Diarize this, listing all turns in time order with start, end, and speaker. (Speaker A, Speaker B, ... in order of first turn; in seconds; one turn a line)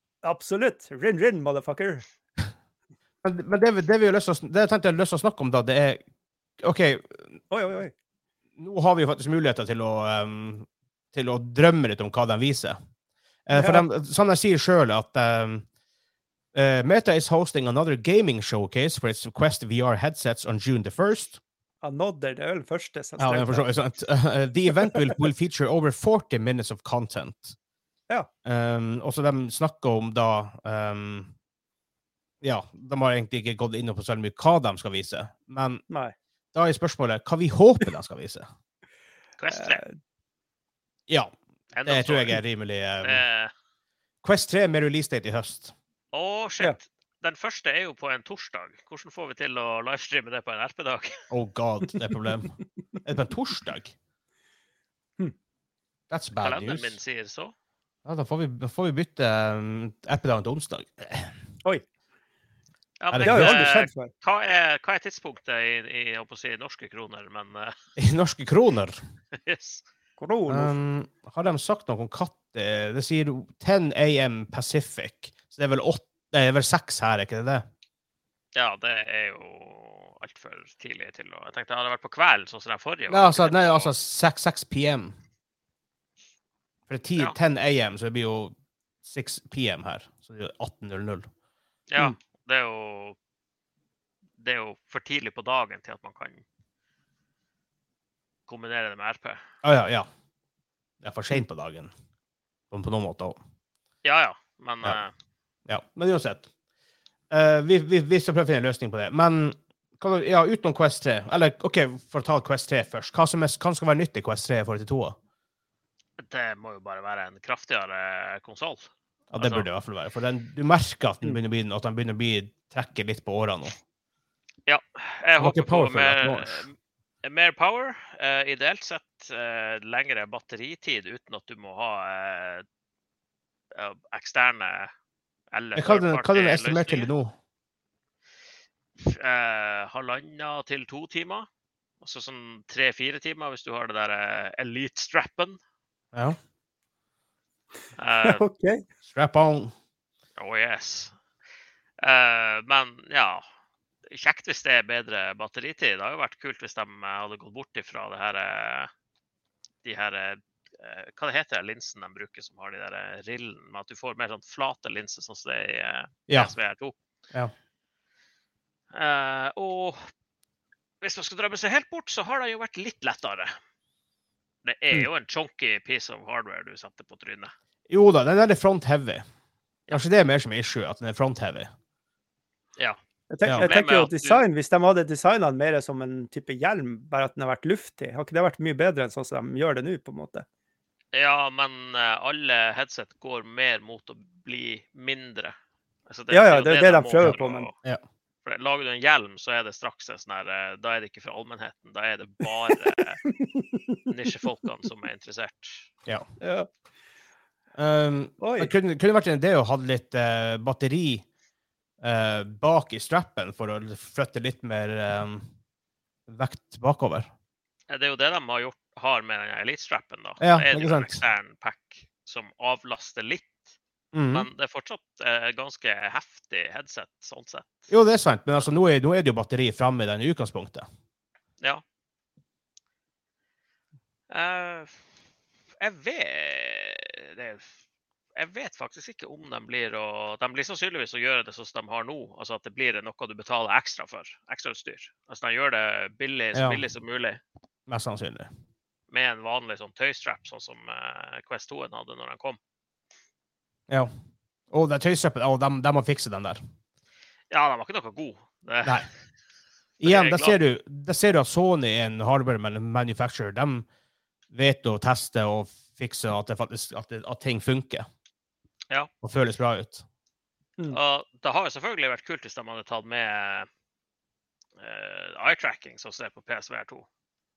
Speaker A: 0.2-2.0
Speaker B: 3.2-6.0
Speaker B: 6.6-7.4
Speaker A: 7.5-7.9
Speaker B: 8.6-12.8
Speaker B: 13.5-15.7
Speaker A: 13.5-13.8
Speaker B: 16.5-21.4
Speaker A: 21.8-23.7
Speaker B: 23.2-27.6
Speaker B: 28.4-31.3
Speaker B: 32.4-35.8
Speaker A: 35.9-36.1
Speaker B: 36.5-38.5
Speaker C: 39.4-39.8
Speaker A: 39.5-39.9
Speaker B: 41.1-41.3
Speaker C: 41.7-42.4
Speaker B: 41.9-43.2
Speaker C: 43.0-43.5
Speaker B: 44.2-45.7
Speaker C: 46.1-51.2
Speaker B: 51.3-54.0
Speaker B: 56.1-57.0
Speaker C: 56.4-57.5
Speaker B: 58.0-61.3
Speaker C: 63.0-67.8
Speaker B: 63.1-63.8
Speaker A: 63.2-64.1
Speaker B: 68.0-69.0
Speaker C: 69.3-69.8
Speaker A: 70.2-70.8
Speaker B: 70.5-77.7
Speaker C: 78.5-83.9
Speaker B: 83.1-85.2
Speaker B: 86.9-91.3
Speaker C: 91.9-93.2
Speaker C: 94.4-96.4
Speaker C: 98.5-99.4
Speaker B: 99.6-100.1
Speaker B: 101.0-101.9
Speaker B: 102.7-103.4
Speaker C: 104.0-105.1
Speaker B: 105.7-106.5
Speaker B: 107.3-115.2
Speaker C: 116.2-119.7
Speaker B: 119.3-123.8
Speaker C: 124.7-132.7
Speaker B: 125.4-126.7
Speaker C: 133.7-134.9
Speaker C: 135.5-137.1
Speaker B: 135.8-137.3
Speaker C: 139.0-141.5
Speaker C: 142.0-145.6
Speaker C: 148.0-148.4
Speaker A: 148.2-148.8
Speaker B: 149.1-149.7
Speaker C: 150.4-151.2
Speaker C: 152.0-153.4
Speaker C: 154.1-158.9
Speaker C: 159.8-166.9
Speaker C: 168.9-170.0
Speaker C: 171.0-173.6
Speaker C: 174.6-177.5
Speaker B: 177.9-179.2
Speaker B: 179.9-181.7
Speaker A: 183.3-190.4
Speaker C: 183.5-184.4
Speaker C: 191.1-195.6
Speaker C: 196.1-197.7
Speaker A: 196.3-197.7
Speaker B: 197.2-198.0
Speaker C: 198.4-203.2
Speaker A: 202.7-204.1
Speaker C: 204.1-205.9
Speaker A: 206.4-206.7
Speaker B: 207.8-211.2
Speaker A: 208.4-208.7
Speaker B: 212.0-215.5
Speaker B: 216.3-217.3
Speaker C: 217.9-223.7
Speaker B: 220.4-221.2
Speaker B: 224.1-224.5
Speaker C: 224.3-227.9
Speaker B: 227.9-230.9
Speaker C: 234.3-235.0
Speaker C: 235.8-237.7
Speaker C: 238.4-247.4
Speaker B: 246.5-246.8
Speaker B: 247.9-248.5
Speaker C: 249.1-252.6
Speaker B: 254.7-256.6
Speaker C: 257.5-259.1
Speaker B: 260.0-263.9
Speaker C: 260.0-260.6
Speaker B: 264.5-268.1
Speaker B: 269.2-270.0
Speaker C: 270.9-273.7
Speaker C: 274.8-277.1